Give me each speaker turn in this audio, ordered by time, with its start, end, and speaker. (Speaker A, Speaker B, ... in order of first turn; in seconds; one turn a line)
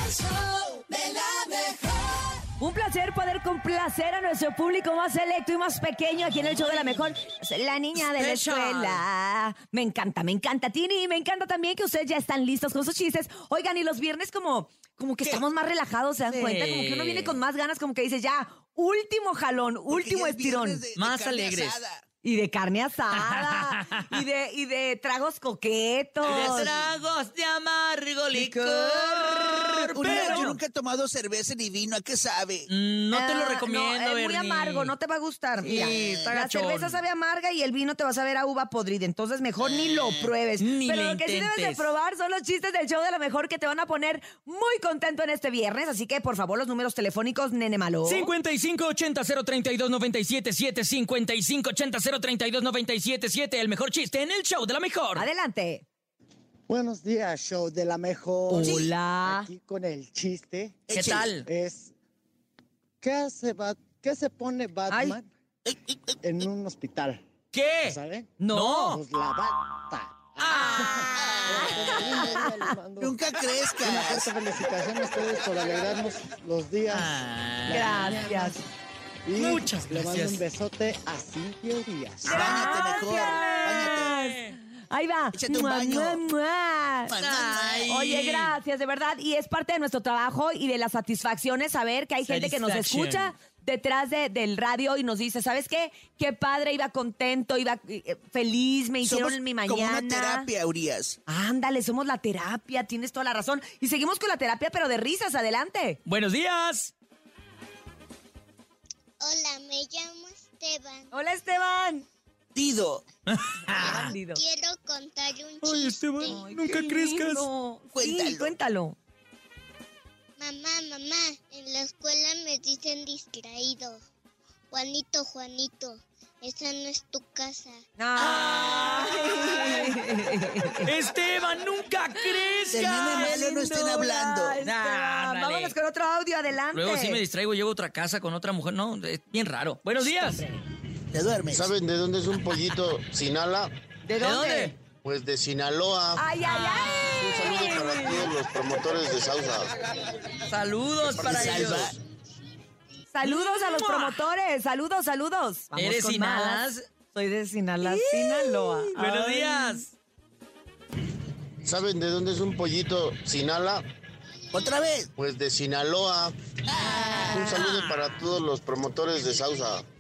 Speaker A: 0.8-1.8
Speaker B: 2.6-20.8
Speaker C: 8.0-9.0
Speaker C: 16.3-17.4
Speaker A: 19.9-22.0
Speaker C: 21.0-21.8
Speaker B: 22.2-26.8
Speaker C: 23.2-24.2
Speaker A: 26.2-26.9
Speaker C: 26.2-30.6
Speaker B: 28.3-30.6
Speaker A: 29.9-32.7
Speaker C: 32.7-34.9
Speaker B: 33.1-48.3
Speaker C: 35.6-37.0
Speaker A: 35.7-36.3
Speaker A: 39.6-40.3
Speaker C: 40.6-41.9
Speaker C: 48.0-55.3
Speaker B: 55.1-55.9
Speaker D: 56.7-61.9
Speaker B: 58.5-59.5
Speaker A: 58.6-58.9
Speaker A: 60.9-61.3
Speaker C: 60.9-61.5
Speaker D: 63.0-65.3
Speaker B: 64.9-65.2
Speaker D: 66.2-67.2
Speaker C: 67.5-68.0
Speaker D: 67.8-73.2
Speaker B: 68.4-68.9
Speaker C: 68.5-69.0
Speaker C: 70.4-71.2
Speaker B: 70.6-71.0
Speaker E: 71.1-71.6
Speaker A: 71.2-72.2
Speaker B: 71.6-72.5
Speaker A: 73.0-74.3
Speaker D: 73.8-78.7
Speaker C: 76.9-78.1
Speaker B: 77.7-78.6
Speaker D: 79.2-82.5
Speaker C: 79.4-80.4
Speaker A: 82.2-84.2
Speaker B: 82.2-87.2
Speaker C: 83.3-84.5
Speaker A: 85.3-86.2
Speaker A: 87.1-87.9
Speaker C: 87.1-88.6
Speaker B: 87.9-100.5
Speaker C: 92.2-93.3
Speaker A: 99.0-101.2
Speaker B: 101.3-106.0
Speaker C: 106.1-106.9
Speaker E: 109.2-111.2
Speaker B: 111.1-112.1
Speaker A: 112.5-113.0
Speaker C: 113.3-114.1
Speaker B: 113.7-114.4
Speaker E: 113.8-116.4
Speaker C: 115.6-117.5
Speaker B: 116.3-119.0
Speaker A: 117.9-118.5
Speaker E: 120.4-124.0
Speaker E: 124.7-129.2
Speaker B: 128.0-130.9
Speaker C: 128.2-129.9
Speaker C: 130.8-133.4
Speaker B: 132.4-137.2
Speaker A: 132.7-134.6
Speaker C: 134.6-135.8
Speaker C: 136.7-140.4
Speaker B: 140.0-140.6
Speaker A: 141.1-141.8
Speaker F: 141.5-143.7
Speaker B: 144.0-144.7
Speaker C: 144.2-144.8
Speaker F: 145.0-146.2
Speaker B: 146.2-148.3
Speaker C: 146.4-148.2
Speaker F: 147.1-149.7
Speaker C: 150.3-151.9
Speaker F: 151.0-151.9
Speaker A: 151.1-151.9
Speaker E: 151.5-152.6
Speaker B: 153.1-159.8
Speaker C: 153.2-154.3
Speaker C: 155.8-156.9
Speaker C: 157.8-159.9
Speaker F: 161.6-163.8
Speaker E: 164.5-165.0
Speaker A: 164.5-165.1
Speaker F: 165.2-166.3
Speaker A: 166.7-167.5
Speaker B: 166.8-167.6
Speaker C: 166.8-168.3
Speaker F: 167.2-169.9